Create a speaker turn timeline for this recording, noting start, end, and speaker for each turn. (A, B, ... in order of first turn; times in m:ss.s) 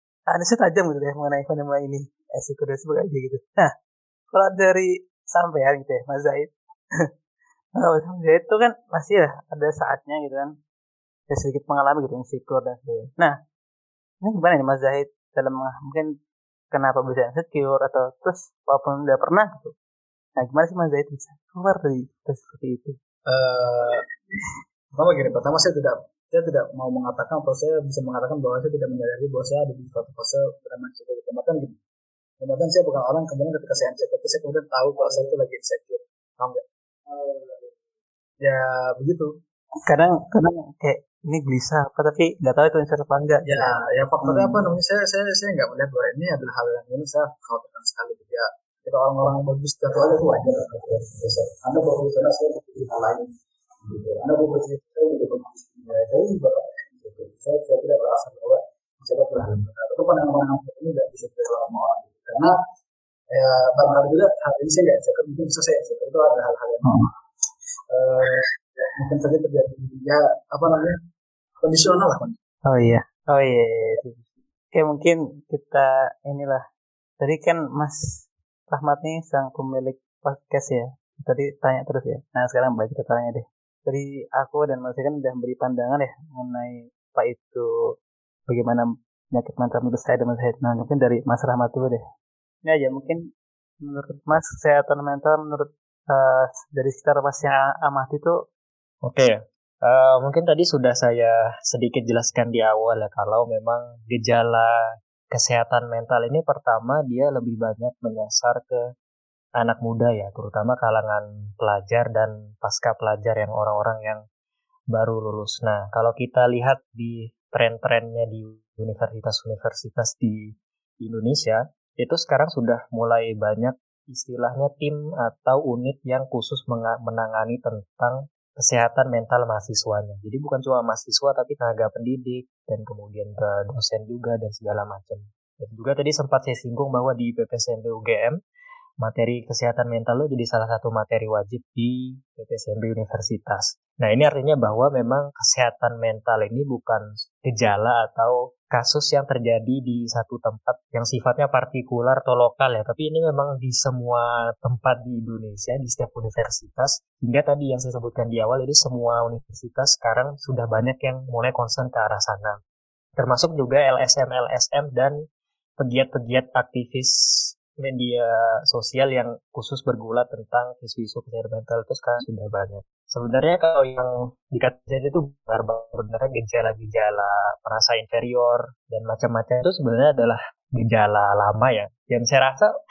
0:00.3-0:03.7 A
0:04.3-0:06.5 A
0:07.8-0:10.5 A
0:11.3-0:13.3 A
0:14.2-0:16.1 A
0:16.7-0:19.7 A
0:20.4-0:23.0 A
0:23.3-0:24.0 B
0:24.9-0:31.8 B
0:32.4-0:37.7 B
0:38.4-0:39.3 B
0:39.9-0:43.7 A
0:43.4-0:53.3 B
0:44.2-0:44.6 A
0:53.8-1:02.5 B
1:03.3-1:07.1 B
1:07.9-1:11.0 B
1:11.6-1:12.4 B
1:12.7-1:16.6 A
1:17.2-1:18.0 A
1:18.7-1:27.7 A
1:28.5-1:32.0 A
1:32.6-1:33.2 A
1:33.8-1:38.3 A
1:39.0-1:44.8 C
1:45.3-1:48.8 C
1:49.6-1:54.2 C
1:54.9-2:18.4 C
2:19.0-2:42.6 C
2:43.2-2:45.2 C
2:45.8-3:02.7 C